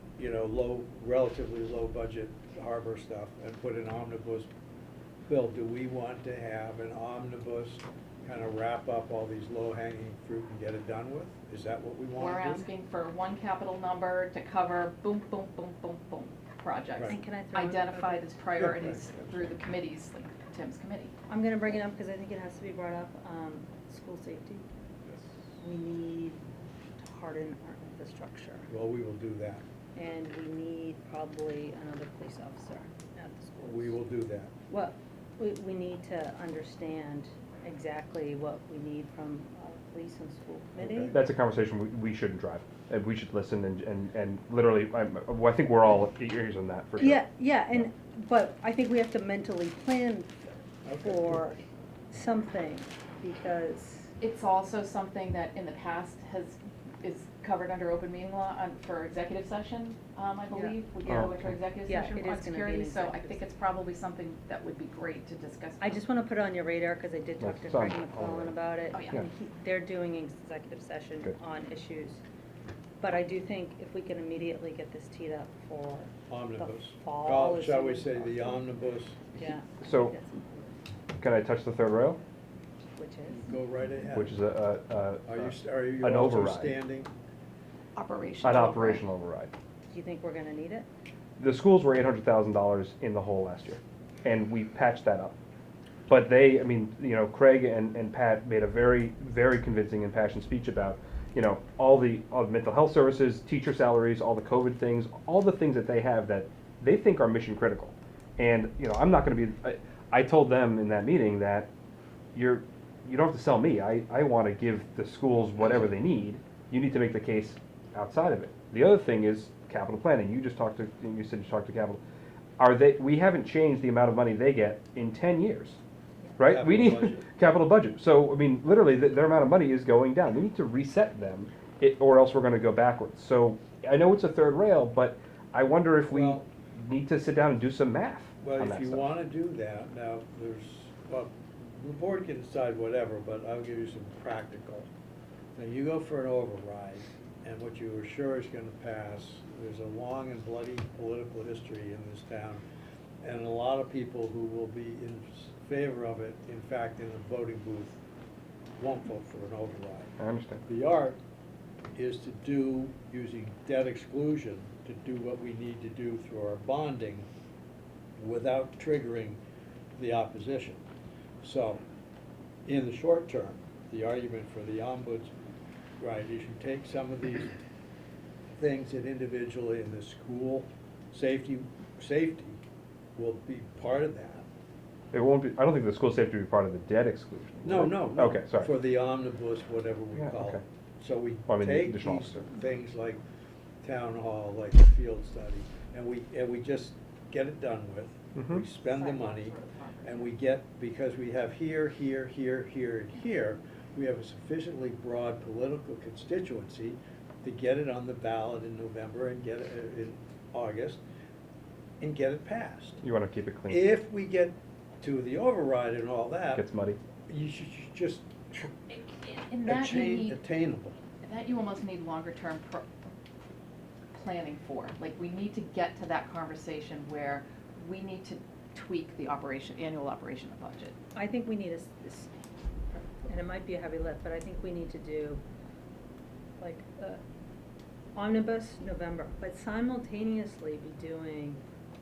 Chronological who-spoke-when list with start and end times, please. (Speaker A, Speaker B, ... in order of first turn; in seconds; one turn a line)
Speaker A: 0.2-4.5
Speaker A: 5.2-12.7
Speaker B: 12.2-21.1
Speaker C: 17.1-18.3
Speaker A: 18.6-19.6
Speaker C: 21.3-24.6
Speaker C: 25.6-26.4
Speaker C: 27.0-28.7
Speaker A: 28.7-29.6
Speaker C: 29.9-34.0
Speaker A: 33.6-34.5
Speaker C: 34.7-41.2
Speaker A: 40.8-41.2
Speaker D: 41.1-47.2
Speaker C: 47.0-54.1
Speaker A: 50.9-51.5
Speaker B: 54.2-66.0
Speaker C: 60.5-63.5
Speaker D: 61.1-61.6
Speaker C: 65.8-72.2
Speaker D: 67.4-68.5
Speaker B: 68.9-69.2
Speaker C: 73.0-78.7
Speaker A: 76.3-79.2
Speaker C: 79.3-80.8
Speaker D: 79.8-80.2
Speaker D: 81.2-82.2
Speaker C: 82.8-83.5
Speaker A: 83.3-84.3
Speaker D: 84.1-86.8
Speaker A: 85.3-87.1
Speaker B: 88.0-89.0
Speaker D: 88.4-89.5
Speaker C: 89.9-90.9
Speaker D: 91.4-95.4
Speaker D: 96.1-111.7
Speaker D: 112.3-122.0
Speaker D: 122.6-125.8
Speaker D: 126.4-139.1
Speaker A: 126.4-127.3
Speaker A: 136.1-136.5
Speaker A: 138.4-144.9
Speaker A: 145.6-152.6
Speaker A: 153.2-158.0
Speaker A: 158.8-161.2
Speaker D: 160.2-160.6
Speaker A: 162.0-167.3
Speaker A: 168.2-169.4
Speaker A: 170.0-170.8
Speaker A: 171.4-171.8
Speaker A: 172.7-175.3
Speaker A: 176.0-177.5
Speaker A: 178.6-182.6
Speaker A: 183.2-184.5
Speaker D: 185.1-188.7
Speaker A: 187.7-193.2
Speaker D: 190.2-190.6
Speaker D: 191.5-192.4
Speaker A: 193.8-211.0
Speaker D: 198.3-198.6
Speaker B: 198.8-200.3
Speaker A: 212.0-213.0
Speaker D: 213.0-213.9
Speaker A: 213.7-216.7
Speaker D: 216.6-217.0
Speaker A: 217.3-218.8
Speaker B: 219.5-220.4
Speaker A: 219.6-221.0
Speaker B: 221.2-223.1
Speaker B: 224.1-231.0
Speaker C: 231.2-232.3
Speaker C: 232.9-235.4
Speaker C: 236.6-237.2
Speaker C: 238.2-241.6